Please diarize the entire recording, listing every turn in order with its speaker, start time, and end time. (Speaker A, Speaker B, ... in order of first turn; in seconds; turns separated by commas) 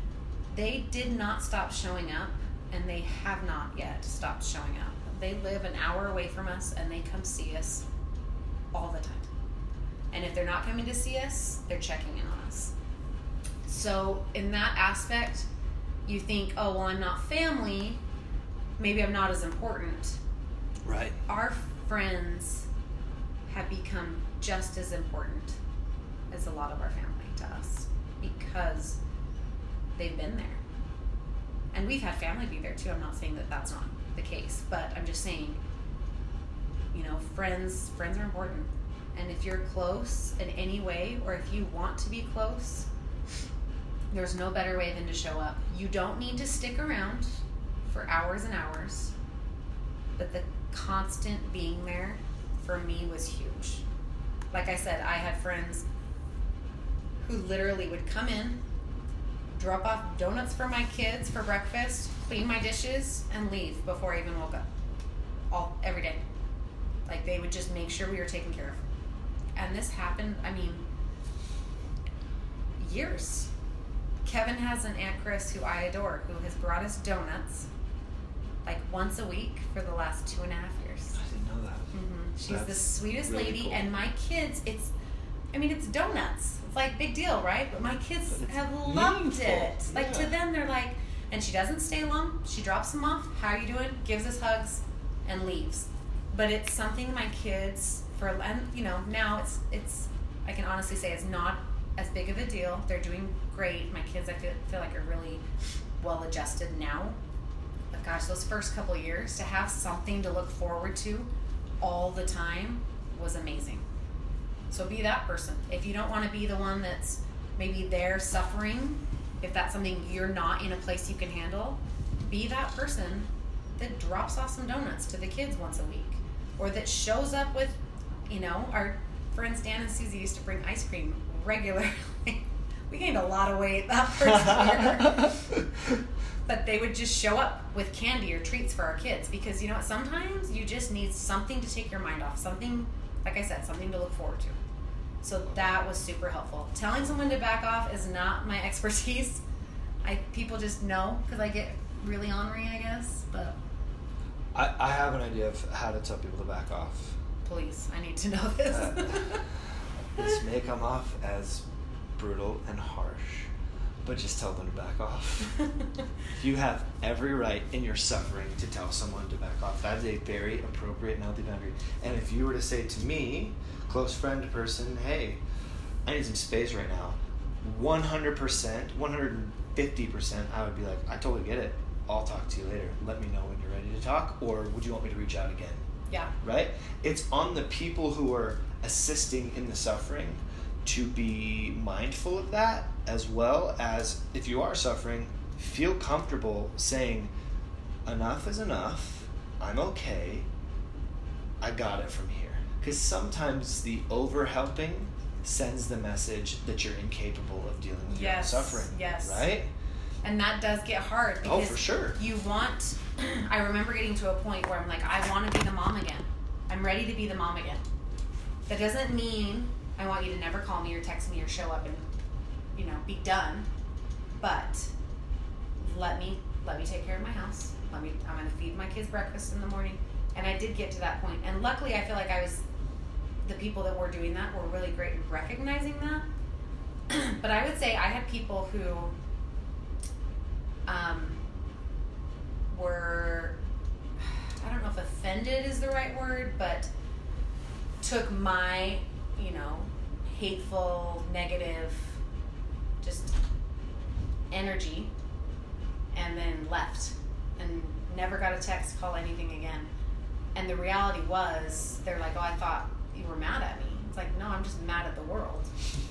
Speaker A: 0.5-7.8, Speaker A: 8.7-9.3, Speaker A: 10.1-12.7, Speaker A: 13.7-15.5, Speaker A: 16.1-18.0, Speaker A: 18.8-20.2, Speaker B: 20.8-21.2, Speaker A: 21.3-22.7, Speaker A: 23.5-25.6, Speaker A: 26.3-29.0, Speaker A: 29.9-30.6, Speaker A: 31.7-35.6, Speaker A: 36.9-42.9, Speaker A: 44.1-49.1, Speaker A: 50.2-53.8, Speaker A: 54.5-55.8, Speaker A: 57.2-58.6, Speaker A: 59.5-64.7, Speaker A: 65.5-66.2, Speaker A: 67.0-68.8, Speaker A: 69.5-70.8, Speaker A: 72.8-73.5, Speaker A: 74.2-77.7, Speaker A: 78.6-81.2, Speaker B: 81.1-83.8, Speaker A: 81.9-84.9, Speaker A: 85.5-105.4, Speaker B: 88.3-90.3, Speaker A: 106.0-107.2, Speaker A: 107.9-111.3, Speaker A: 111.8-113.8, Speaker A: 114.7-127.7, Speaker A: 128.3-135.6, Speaker B: 134.4-135.6, Speaker A: 136.4-144.6, Speaker A: 145.2-149.4, Speaker A: 150.0-153.6, Speaker B: 154.5-157.2, Speaker A: 157.4-159.4, Speaker B: 158.7-159.6, Speaker B: 160.2-161.6, Speaker B: 162.2-163.5, Speaker B: 164.0-165.6, Speaker B: 166.3-175.4, Speaker B: 176.1-185.8, Speaker B: 186.4-197.3, Speaker B: 198.1-200.5, Speaker B: 201.6-209.7, Speaker A: 208.1-209.5, Speaker A: 210.2-217.8, Speaker B: 211.4-212.2, Speaker A: 218.7-222.1, Speaker A: 222.8-223.7, Speaker A: 224.4-224.9, Speaker A: 225.8-232.6, Speaker A: 233.4-236.2, Speaker A: 237.1-239.2, Speaker A: 240.9-241.4, Speaker A: 242.7-243.6, Speaker A: 244.2-246.9, Speaker A: 248.0-252.2, Speaker A: 253.0-253.3, Speaker A: 254.5-255.1, Speaker A: 256.1-259.9, Speaker A: 260.5-265.7